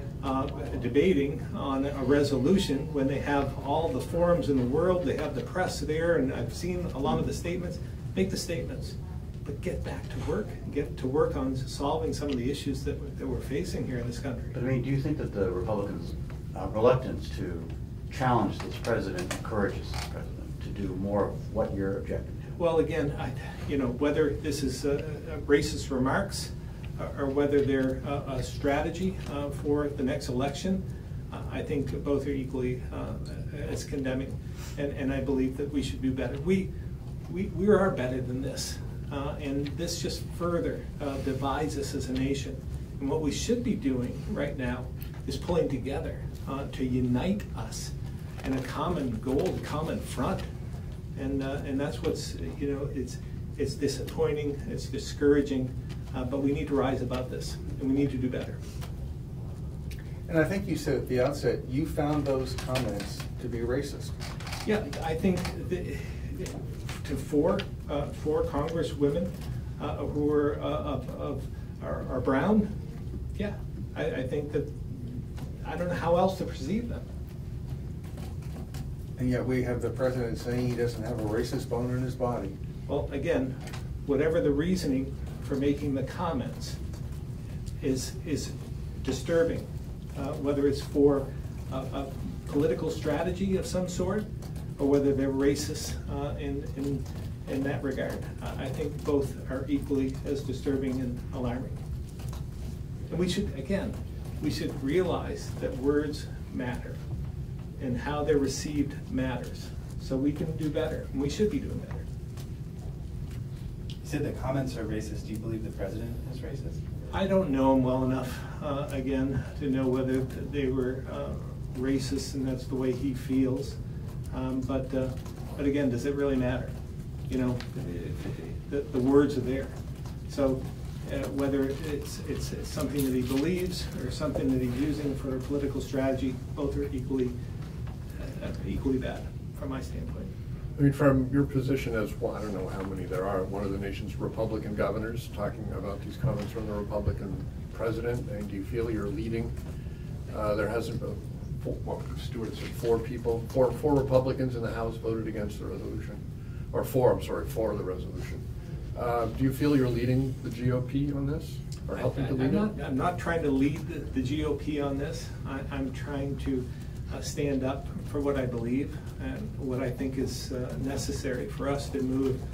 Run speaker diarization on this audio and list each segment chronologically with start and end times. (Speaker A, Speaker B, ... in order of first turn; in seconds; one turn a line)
Speaker A: 0.2-14.5
Speaker B: 14.5-22.6
Speaker A: 22.6-36.7
Speaker A: 37.3-50.5
Speaker A: 51.1-58.6
Speaker C: 60.3-64.1
Speaker A: 64.6-72.7
Speaker A: 73.4-77.0
Speaker C: 79.2-82.5
Speaker A: 82.9-86.8
Speaker A: 87.8-94.3
Speaker A: 94.8-101.8
Speaker A: 103.1-107.0
Speaker A: 107.8-112.0
Speaker D: 114.0-116.8
Speaker A: 117.1-123.8
Speaker A: 124.3-126.7
Speaker A: 127.3-127.8
Speaker A: 128.6-129.7
Speaker A: 130.3-137.4
Speaker A: 138.2-140.3
Speaker E: 140.8-149.5
Speaker E: 150.3-162.7
Speaker A: 161.9-172.4